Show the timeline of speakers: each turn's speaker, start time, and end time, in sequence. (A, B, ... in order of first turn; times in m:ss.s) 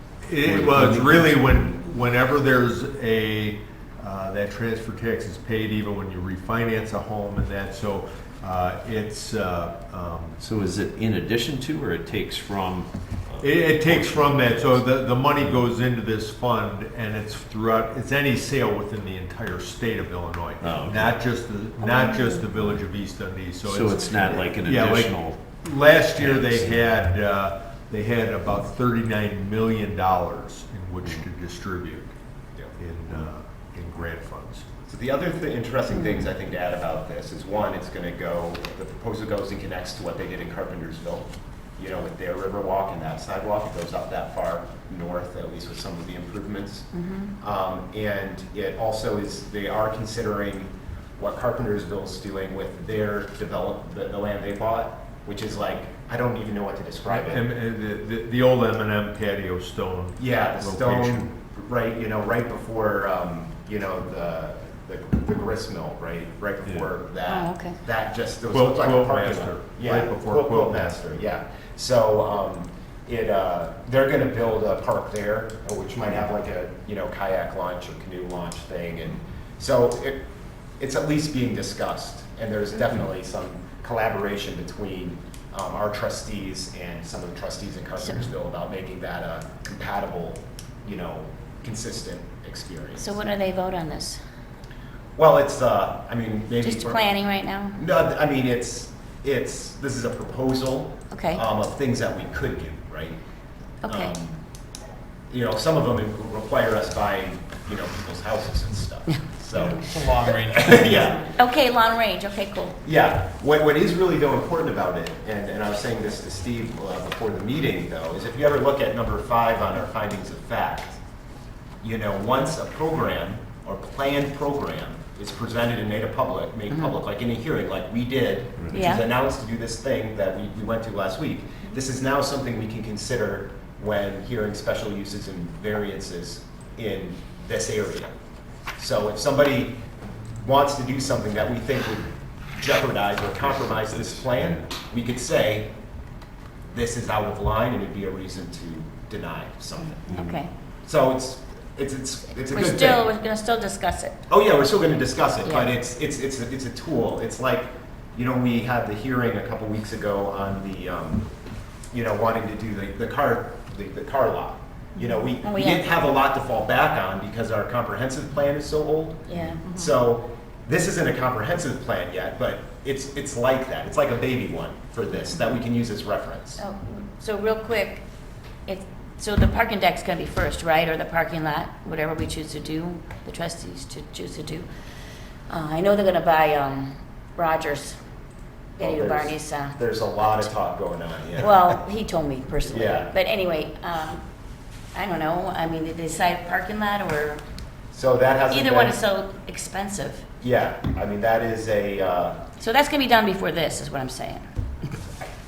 0:00.2-0:10.4 A
0:00.4-0:01.4 B
0:10.4-0:14.8 B
0:13.4-0:32.1 A
0:20.6-0:21.2 B
0:23.6-0:25.4 B
0:26.2-0:26.8 B
0:32.8-0:34.6 A
0:34.9-0:46.9 C
0:35.9-0:36.2 D
0:46.9-0:47.3 D
0:47.4-0:57.4 C
0:57.1-1:01.3 A
1:00.2-1:20.2 C
1:07.2-1:07.8 D
1:08.5-1:10.9 A
1:20.8-1:33.2 C
1:33.0-1:34.2 D
1:35.2-1:37.1 C
1:36.6-1:37.8 D
1:37.7-1:43.2 C
1:41.1-1:41.4 D
1:43.8-1:44.1 D
1:43.8-1:44.4 C
1:45.3-1:51.4 C
1:49.8-1:50.7 B
1:51.3-1:52.8 D
1:52.8-2:01.0 C
2:01.8-2:18.1 C
2:08.7-2:09.0 D
2:18.8-2:19.8 C
2:20.4-2:25.7 C
2:24.1-2:24.4 B
2:26.7-2:33.1 C
2:29.8-2:30.5 D
2:32.5-2:34.2 D
2:34.3-2:41.3 C
2:35.4-2:35.7 D
2:41.9-2:56.6 C
2:45.4-2:45.8 D
2:49.3-2:49.6 D
2:56.6-2:58.0 D
2:58.6-3:04.7 D
3:05.5-3:08.0 D
3:08.8-3:09.8 D
3:08.8-3:11.8 C
3:11.4-3:14.2 D
3:12.7-3:13.1 C
3:14.9-3:17.4 D
3:17.9-3:19.0 C
3:18.5-3:20.2 D
3:20.4-3:22.4 C
3:22.6-3:24.9 D